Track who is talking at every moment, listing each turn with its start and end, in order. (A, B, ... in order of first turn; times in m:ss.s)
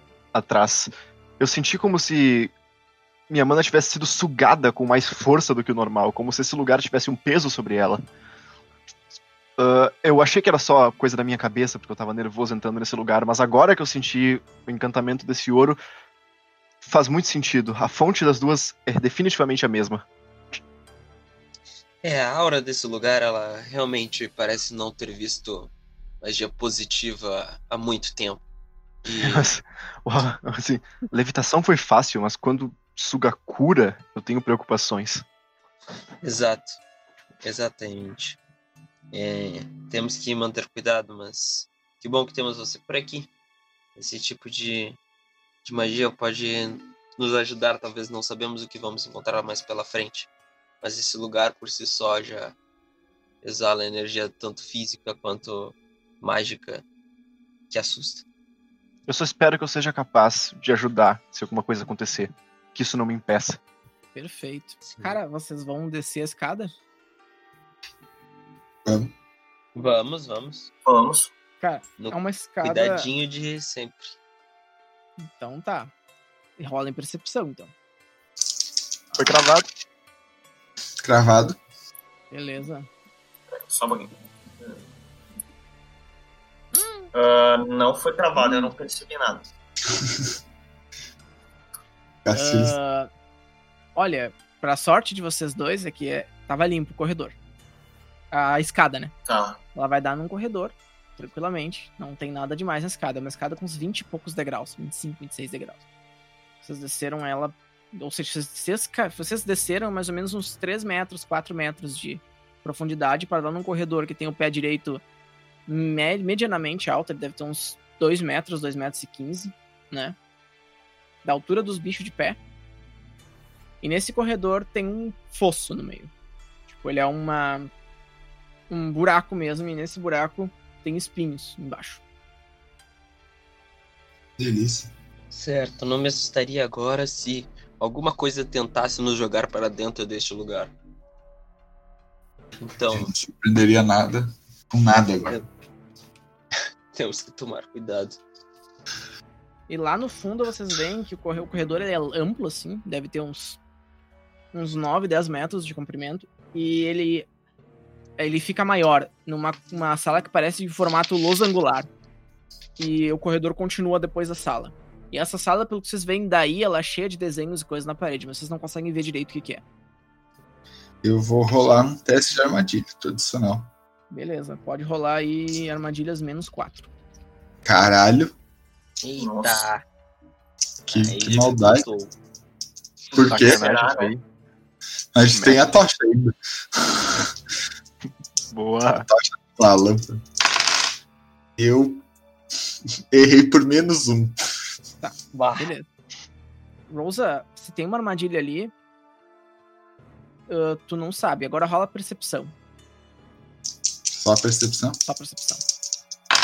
0:00.3-0:02.5 A
0:03.3-0:08.0 A
0:09.6-0:15.8 A
0:16.8-0:20.0 A
0:22.0-0:28.4 B
0:29.0-0:29.5 B
0:29.2-0:35.2 A
0:36.2-0:36.8 B
0:37.4-0:38.4 B
0:39.1-0:43.3 B
0:44.0-0:45.0 B
0:45.6-0:50.3 B
0:50.8-0:52.5 B
0:53.4-0:56.8 B
0:57.7-0:58.2 B
0:59.1-1:03.6 A
1:04.2-1:06.7 C
1:08.8-1:09.1 D
1:09.8-1:10.7 B
1:10.8-1:11.3 E
1:11.6-1:13.1 C
1:12.0-1:14.1 B
1:15.2-1:15.9 C
1:16.6-1:17.7 C
1:19.2-1:19.7 A
1:21.0-1:21.6 D
1:22.3-1:22.9 C
1:23.7-1:24.8 E
1:26.7-1:27.1 C
1:27.1-1:29.5 E
1:32.2-1:32.8 D
1:32.3-1:33.1 C
1:34.0-1:37.4 C
1:38.3-1:39.1 C
1:39.3-1:39.6 E
1:39.8-1:45.8 C
1:46.6-1:55.0 C
1:55.7-2:00.2 C
2:01.2-2:02.4 C
2:03.8-2:06.1 C
2:06.7-2:07.7 C
2:08.7-2:12.0 C
2:14.4-2:14.9 D
2:15.3-2:20.7 B
2:22.6-2:23.1 B
2:22.9-2:25.4 D
2:26.9-2:28.2 B
2:29.7-2:33.6 C
2:34.5-2:37.3 C
2:38.2-2:41.9 C
2:42.8-2:49.6 C
2:51.0-2:53.7 D
2:54.1-2:56.9 C
2:57.6-2:58.3 D
2:59.0-2:59.8 B
2:59.2-2:59.7 E
3:00.9-3:01.9 D
3:00.9-3:02.1 B
3:03.1-3:04.1 E
3:03.1-3:03.6 D
3:03.2-3:04.2 A
3:05.2-3:07.3 D
3:05.3-3:05.7 A
3:08.5-3:09.1 A
3:09.1-3:10.2 D
3:11.6-3:12.0 D
3:13.1-3:14.4 D
3:15.0-3:15.9 C
3:15.3-3:15.7 B
3:16.9-3:18.7 C
3:20.5-3:22.5 C
3:24.1-3:25.0 D
3:25.1-3:25.6 C